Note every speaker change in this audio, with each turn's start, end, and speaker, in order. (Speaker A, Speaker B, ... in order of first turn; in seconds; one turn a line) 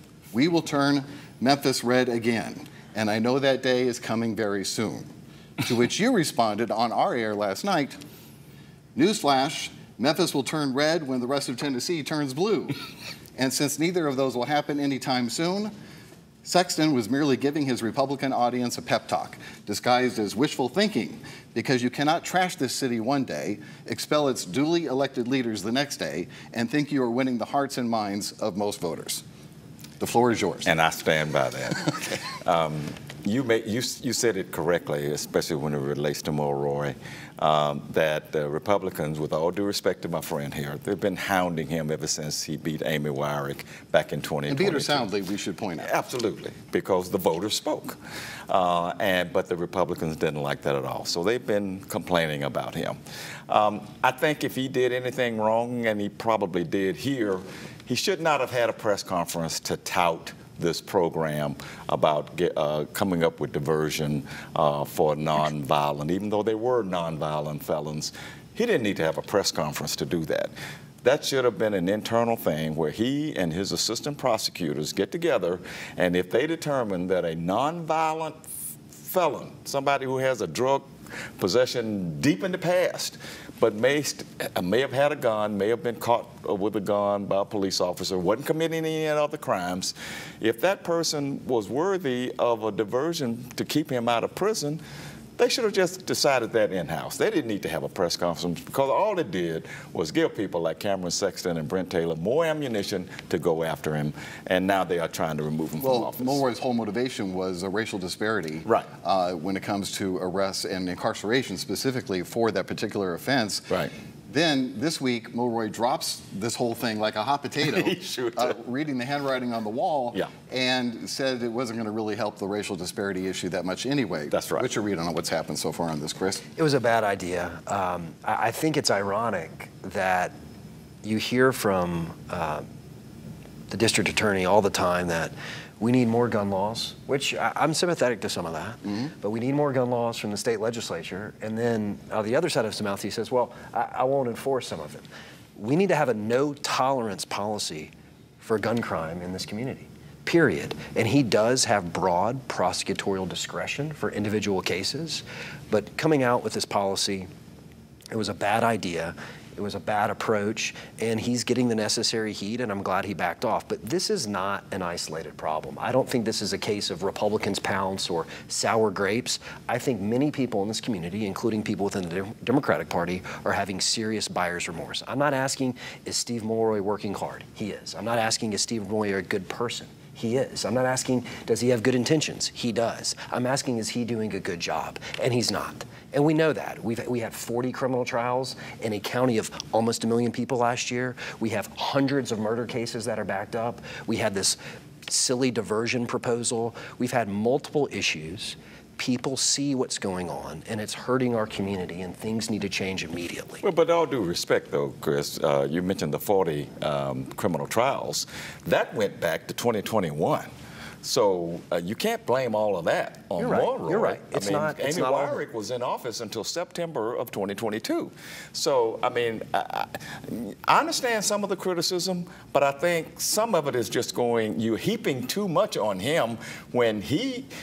Speaker A: 0.3-5.1
Speaker A: 5.6-8.0
Speaker A: 9.0-12.8
Speaker A: 13.4-15.7
Speaker A: 16.4-29.2
Speaker A: 30.0-30.7
Speaker B: 30.6-45.1
Speaker A: 44.5-45.9
Speaker B: 45.8-48.0
Speaker B: 48.5-53.0
Speaker B: 53.5-70.5
Speaker B: 71.0-78.4
Speaker B: 78.9-94.8
Speaker B: 95.4-106.4
Speaker A: 105.8-113.8
Speaker A: 114.3-126.5
Speaker B: 117.6-118.6
Speaker B: 124.3-124.7
Speaker C: 126.6-130.3
Speaker C: 131.0-132.7
Speaker C: 133.7-157.3
Speaker C: 158.1-203.6
Speaker B: 203.6-210.5
Speaker B: 211.0-227.5
Speaker C: 213.4-215.4